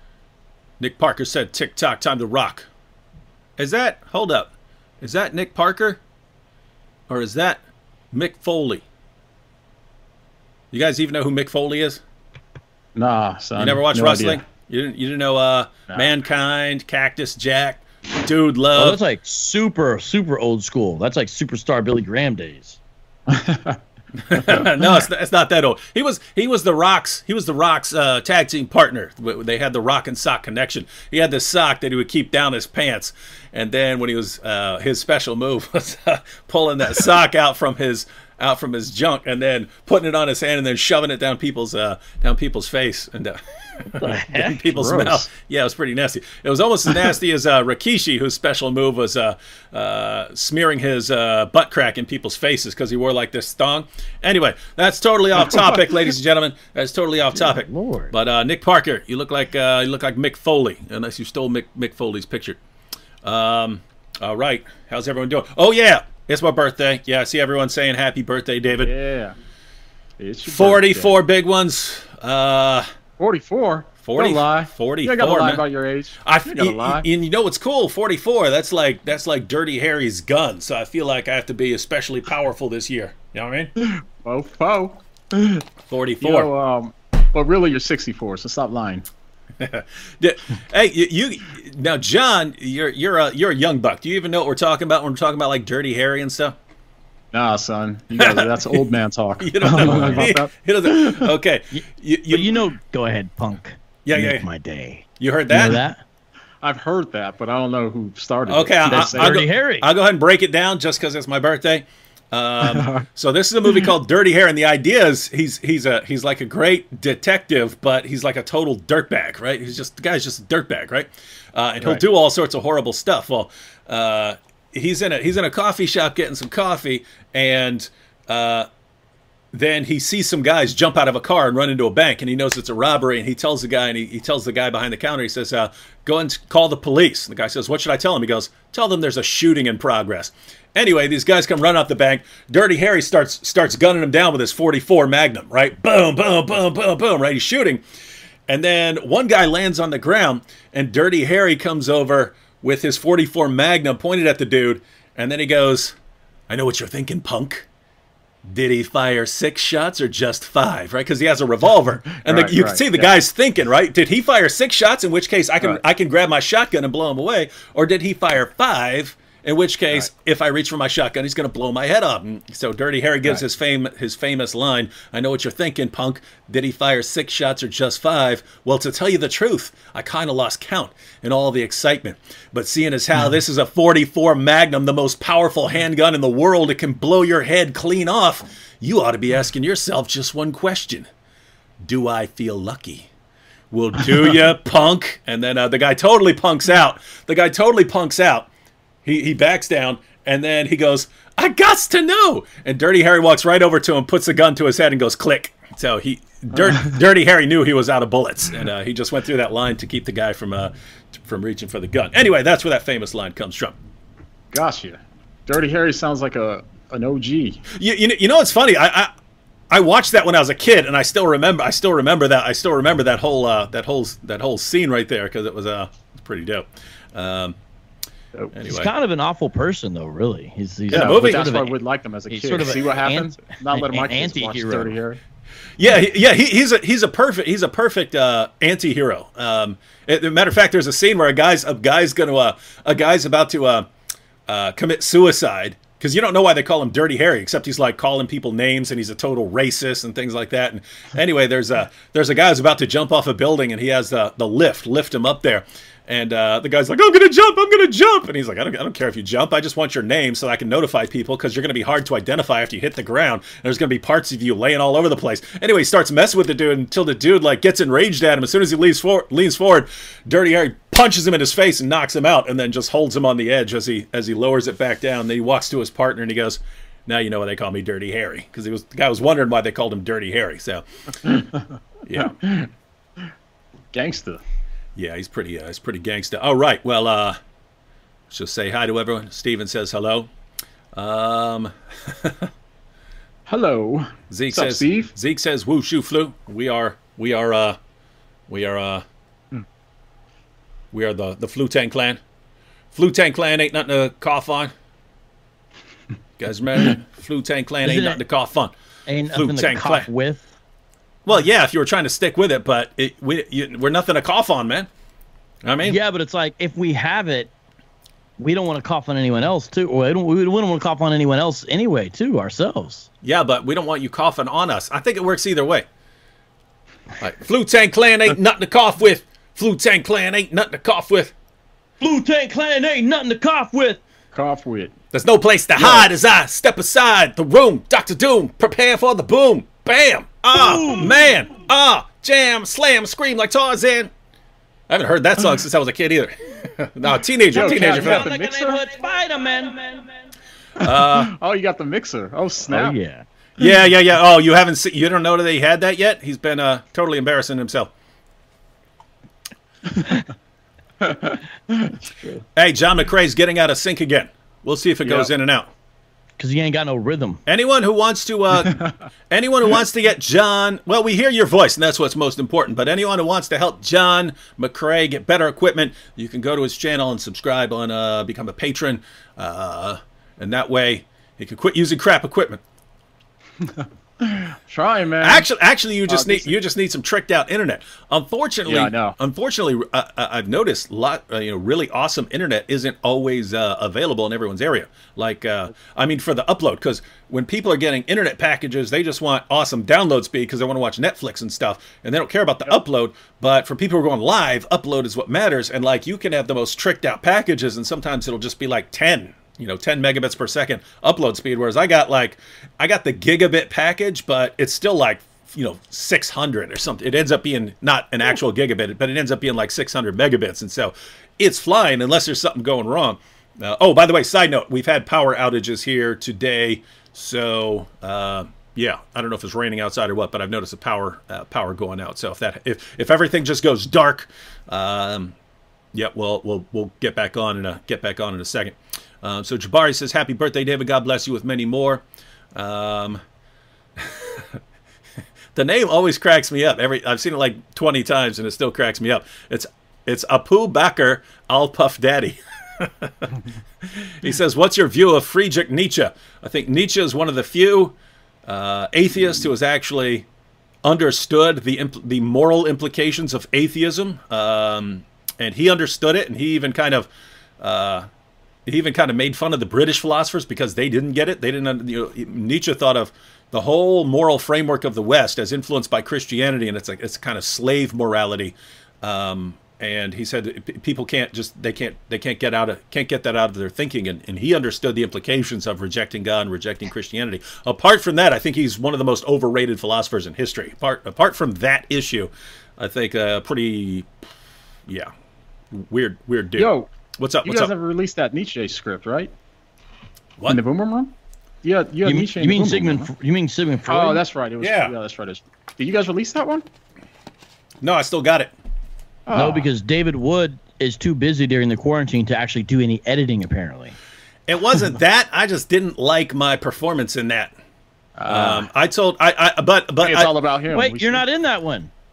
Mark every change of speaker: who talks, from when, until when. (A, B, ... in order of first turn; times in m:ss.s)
0:00.8-0:02.7 A
0:03.6-0:06.0 A
0:07.1-0:07.6 A
0:08.1-0:08.8 A
0:10.7-0:12.0 A
0:13.0-0:14.4 B
0:13.6-0:19.0 A
0:18.8-0:22.8 C
0:23.3-0:23.8 B
0:24.2-1:02.6 A
0:44.0-0:44.6 C
0:44.7-0:45.3 B
0:57.3-0:58.1 C
1:03.2-1:08.9 A
1:08.8-1:09.4 B
1:10.2-1:11.2 B
1:10.4-1:12.9 A
1:13.2-1:17.1 B
1:14.0-1:15.6 A
1:16.2-1:23.7 A
1:23.8-1:25.6 B
1:25.9-1:26.5 A
1:26.2-1:29.0 B
1:29.6-1:36.6 A
1:37.3-1:41.3 B
1:38.2-1:38.8 A
1:39.4-1:42.6 A
1:40.0-1:40.2 C
1:41.7-1:46.0 C
1:44.0-1:44.4 A
1:45.2-1:45.8 A
1:46.6-1:49.4 B
1:48.5-2:08.7 A
1:48.9-1:49.9 C
1:52.6-1:53.0 B
2:09.5-2:27.8 A
2:28.5-2:36.0 A
2:36.5-2:37.7 A
2:38.4-3:11.1 A
2:42.2-2:43.1 B
3:11.8-3:13.1 A
3:13.7-3:18.5 A
3:19.0-3:33.8 A
3:34.5-3:37.6 B
3:37.7-3:39.1 A
3:39.7-3:47.6 A
3:48.5-3:48.9 A
3:48.7-3:51.8 C
3:50.9-3:55.2 B
3:50.9-3:51.5 A
3:52.3-3:54.9 C
3:55.8-4:03.9 A
4:04.5-4:41.4 A
4:42.0-4:42.4 A
4:42.2-4:42.7 B
4:43.9-4:44.4 B
4:45.0-4:47.4 A
4:48.3-4:50.3 A
4:50.9-4:52.5 A
4:53.5-4:55.1 B
4:54.3-4:57.8 A
4:58.5-4:59.0 A
5:00.9-5:02.2 A
5:02.9-5:04.7 A
5:06.4-5:08.7 A
5:07.8-5:08.2 C
5:09.1-5:10.4 C
5:09.3-5:10.1 A
5:11.2-5:14.9 A
5:15.6-5:16.0 A
5:15.8-5:17.5 C
5:18.4-5:23.1 C
5:23.2-5:25.9 A
5:27.2-5:31.3 A
5:32.0-5:34.0 C
5:34.3-5:34.9 B
5:35.1-5:44.1 A
5:35.8-5:36.1 B
5:40.5-5:41.1 C
5:44.9-5:48.3 A
5:47.5-5:48.8 B
5:47.6-5:50.1 C
5:50.8-5:51.3 A
5:51.0-5:53.0 B
5:52.7-5:53.2 C
5:53.6-5:57.9 A
6:01.0-6:01.9 B
6:02.1-6:02.4 C
6:02.6-6:05.7 A
6:06.4-6:07.4 C
6:07.5-6:22.6 A
6:23.6-6:25.5 B
6:25.2-7:15.3 A
6:26.1-6:26.6 B
6:28.6-6:29.2 B
7:15.9-7:22.0 A
7:22.6-7:23.2 A
7:24.0-7:24.4 A
7:25.6-7:33.3 A
7:33.8-7:40.2 A
7:40.8-7:47.1 A
7:47.6-7:48.1 A
7:48.6-8:14.1 A
8:15.7-8:17.7 A
8:16.6-8:16.9 B
8:17.4-8:19.3 B
8:20.5-8:23.1 B
8:22.0-8:24.2 C
8:23.9-8:26.7 B
8:24.6-8:24.9 A
8:27.8-8:28.5 A
8:29.3-8:29.7 B
8:29.3-8:34.0 C
8:34.5-8:37.5 A
8:38.2-8:38.7 B
8:38.3-8:40.3 A
8:40.0-8:41.2 B
8:40.7-8:41.9 C